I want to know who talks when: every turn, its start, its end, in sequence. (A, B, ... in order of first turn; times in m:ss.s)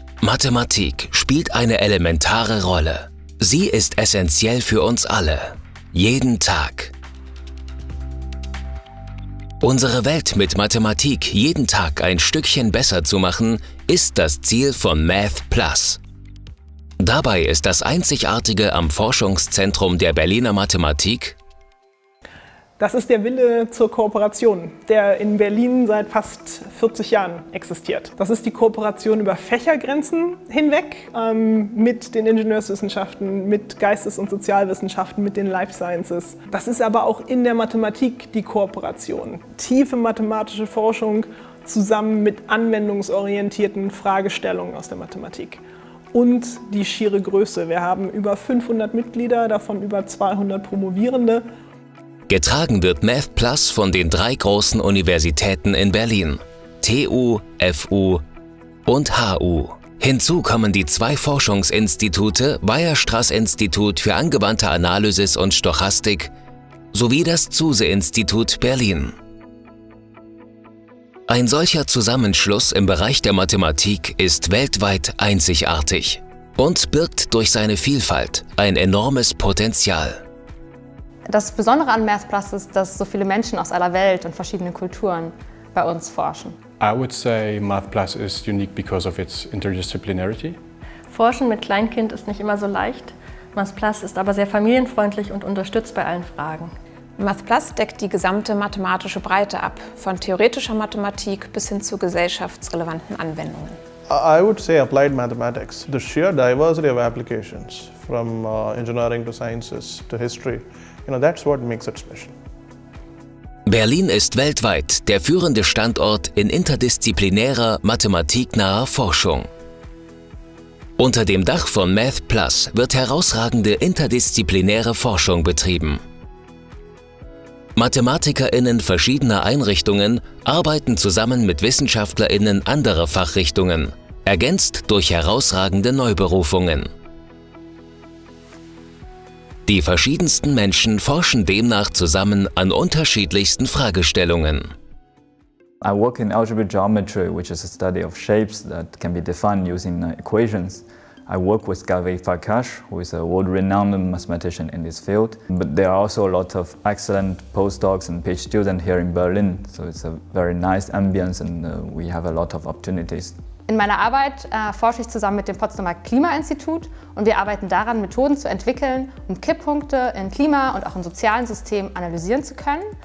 0:00.2-0:06.9 A
0:09.6-0:16.0 A
0:17.0-0:21.4 A
0:22.8-0:45.6 B
0:46.1-0:51.4 B
0:52.3-0:58.2 A
0:58.8-1:06.3 A
1:06.9-1:09.1 A
1:11.3-1:20.2 A
1:21.3-1:26.6 C
1:26.8-1:30.6 D
1:31.1-1:36.7 E
1:37.2-1:43.8 F
1:44.0-1:52.4 G
1:53.7-1:59.5 A
2:01.0-2:06.0 A
2:07.8-2:16.9 A
2:19.6-2:24.7 A
2:25.8-2:43.4 H
2:43.7-2:52.8 C